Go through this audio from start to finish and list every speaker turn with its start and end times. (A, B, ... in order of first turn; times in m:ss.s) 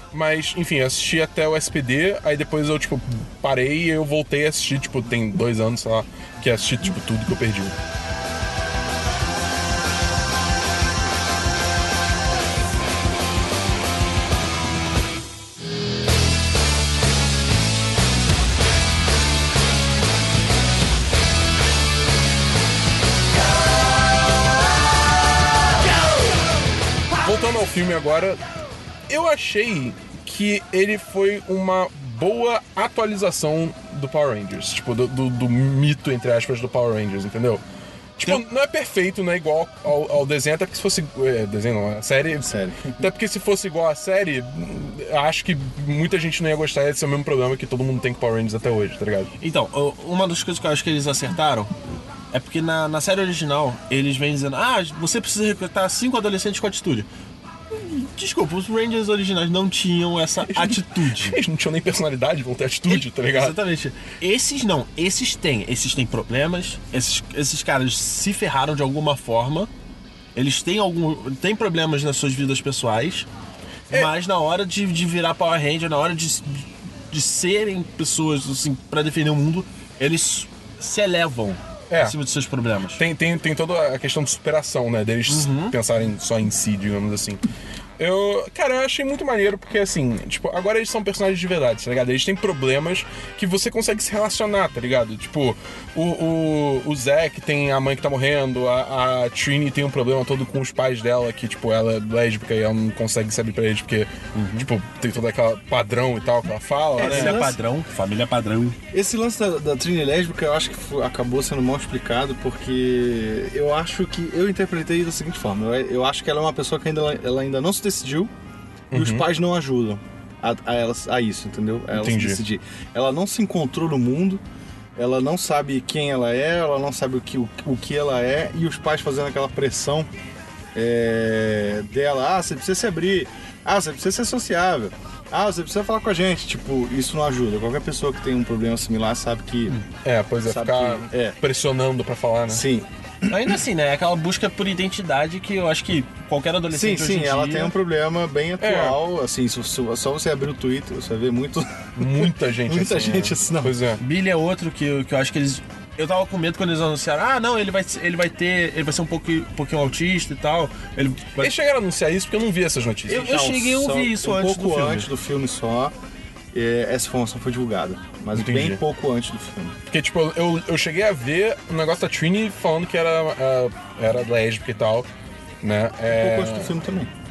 0:00.1-0:07.8 A
0:27.2-0:28.4 A
0:29.1-0:37.6 A
0:38.2-0:49.3 A
0:42.4-0:43.1 B
0:49.4-0:51.8 C
0:52.3-0:57.1 C
0:57.7-1:01.4 C
1:00.5-1:03.6 A
1:02.9-1:09.7 C
1:10.4-1:13.3 C
1:13.9-1:23.0 C
1:21.9-1:22.2 A
1:23.0-1:27.5 A
1:25.3-1:25.8 C
1:28.0-1:47.5 A
1:44.4-1:44.7 C
1:47.0-1:47.6 B
1:47.0-1:48.8 C
1:48.9-1:58.3 B
1:58.9-1:59.3 A
1:58.9-2:04.4 B
2:02.0-2:02.4 A
2:05.0-2:10.1 B
2:10.8-2:19.8 B
2:20.0-2:22.6 A
2:20.4-2:21.4 B
2:22.5-2:23.5 B
2:23.3-2:27.7 C
2:26.7-2:33.8 B
2:28.6-2:29.0 A
2:32.0-2:34.0 A
2:34.0-2:41.5 C
2:41.4-2:43.3 A
2:43.1-2:45.1 C
2:43.1-2:45.9 B
2:46.5-2:49.8 B
2:48.3-2:48.8 A
2:49.9-2:55.1 A
2:55.6-2:56.7 A
2:56.1-2:57.1 B